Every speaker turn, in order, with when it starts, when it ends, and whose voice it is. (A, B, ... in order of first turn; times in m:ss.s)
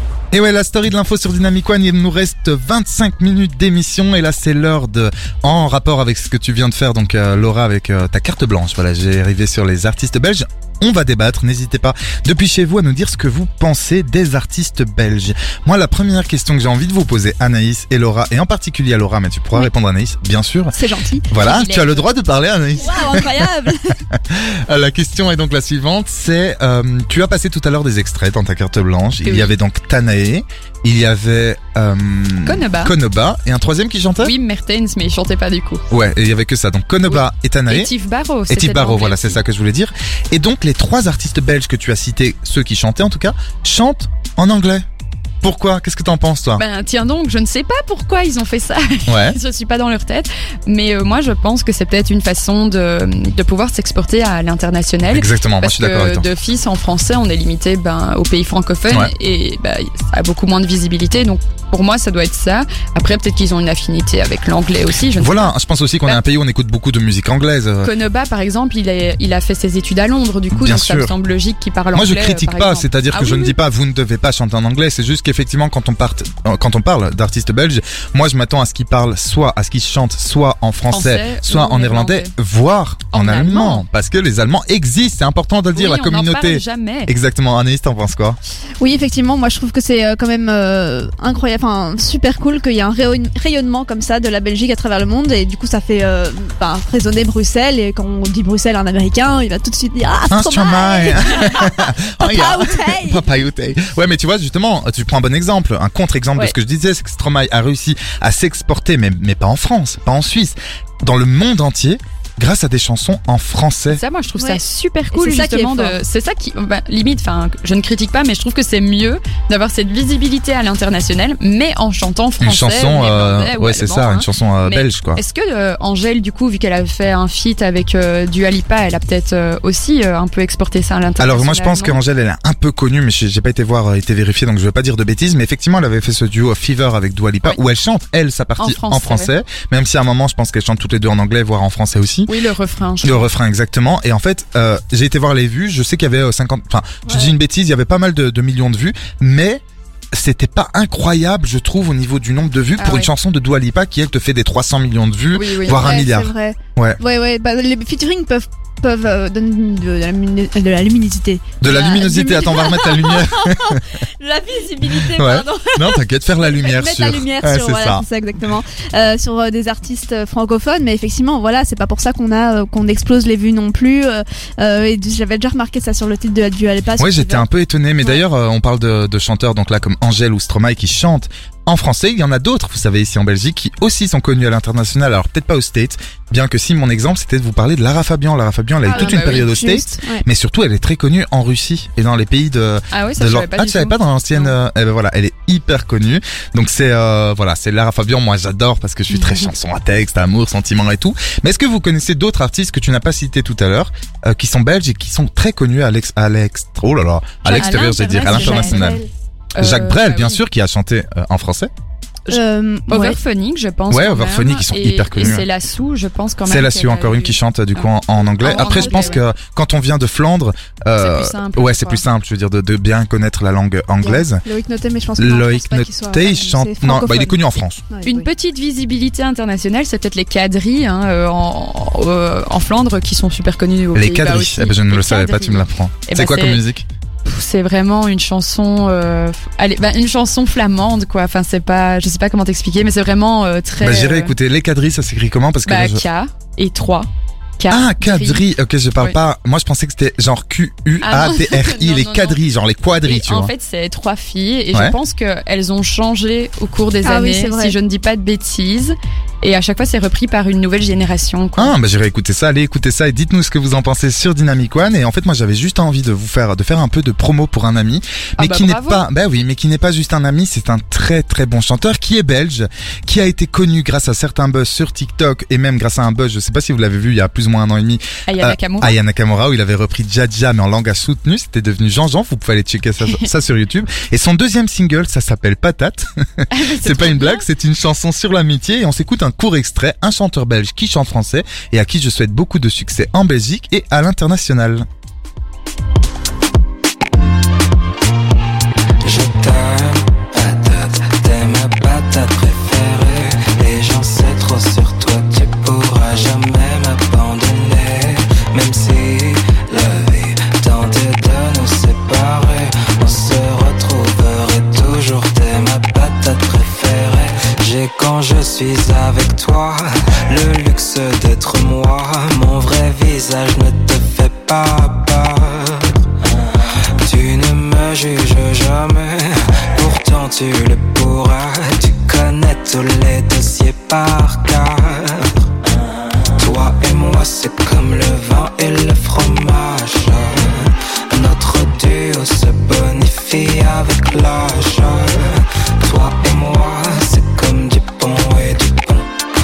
0:00.3-0:20.8 A
0:20.7-0:21.3 B
0:21.3-0:23.4 A
0:21.3-0:22.1 C
0:22.8-0:23.9 B
0:24.1-0:34.3 A
0:29.2-0:29.5 C
0:32.4-0:32.9 C
0:34.2-0:35.8 C
0:35.9-0:37.9 A
0:37.1-0:39.4 C
0:38.5-0:44.8 A
0:45.4-0:46.6 A
0:46.6-1:05.5 C
0:49.1-0:49.4 A
0:55.1-0:56.3 A
1:05.2-1:07.9 A
1:07.8-1:13.6 C
1:10.5-1:11.1 A
1:11.9-1:28.4 A
1:20.9-1:22.3 C
1:23.1-1:23.8 C
1:25.7-1:27.1 C
1:28.8-1:43.2 B
1:40.3-1:54.0 A
1:53.9-2:12.0 C
1:54.4-1:54.6 B
1:55.1-1:56.0 B
2:02.4-2:05.2 A
2:11.2-2:22.3 A
2:18.6-2:19.3 C
2:22.2-2:23.3 C
2:23.0-2:29.6 A
2:30.1-2:37.0 A
2:32.8-2:33.1 C
2:35.3-2:36.0 C
2:35.7-2:57.4 B
2:41.6-2:43.8 A
2:44.8-2:48.0 A
2:57.0-3:29.0 A
3:08.8-3:10.2 B
3:08.9-3:09.5 C
3:12.9-3:14.6 C
3:19.1-3:19.5 C
3:27.4-3:29.0 C
3:27.4-3:29.1 B
3:29.5-3:30.4 C
3:29.6-3:31.7 A
3:32.3-3:37.9 C
3:32.3-3:33.2 B
3:33.9-3:35.5 A
3:36.4-3:44.4 A
3:38.4-3:39.2 C
3:38.4-3:39.2 B
3:41.0-3:42.0 C
3:44.0-3:48.3 B
3:45.2-3:47.8 A
3:48.0-3:56.6 C
3:53.9-3:56.8 A
3:57.2-4:04.3 C
4:03.8-4:06.0 A
4:05.6-4:08.4 C
4:07.7-4:13.5 A
4:11.0-4:12.4 C
4:13.0-4:21.8 C
4:17.0-4:17.8 B
4:21.6-4:54.8 A
4:28.4-4:29.0 C
4:38.3-4:39.0 C
4:43.0-4:43.3 C
4:46.5-4:47.5 C
4:59.0-5:26.0 D
5:27.0-5:35.3 D
5:36.4-5:49.1 D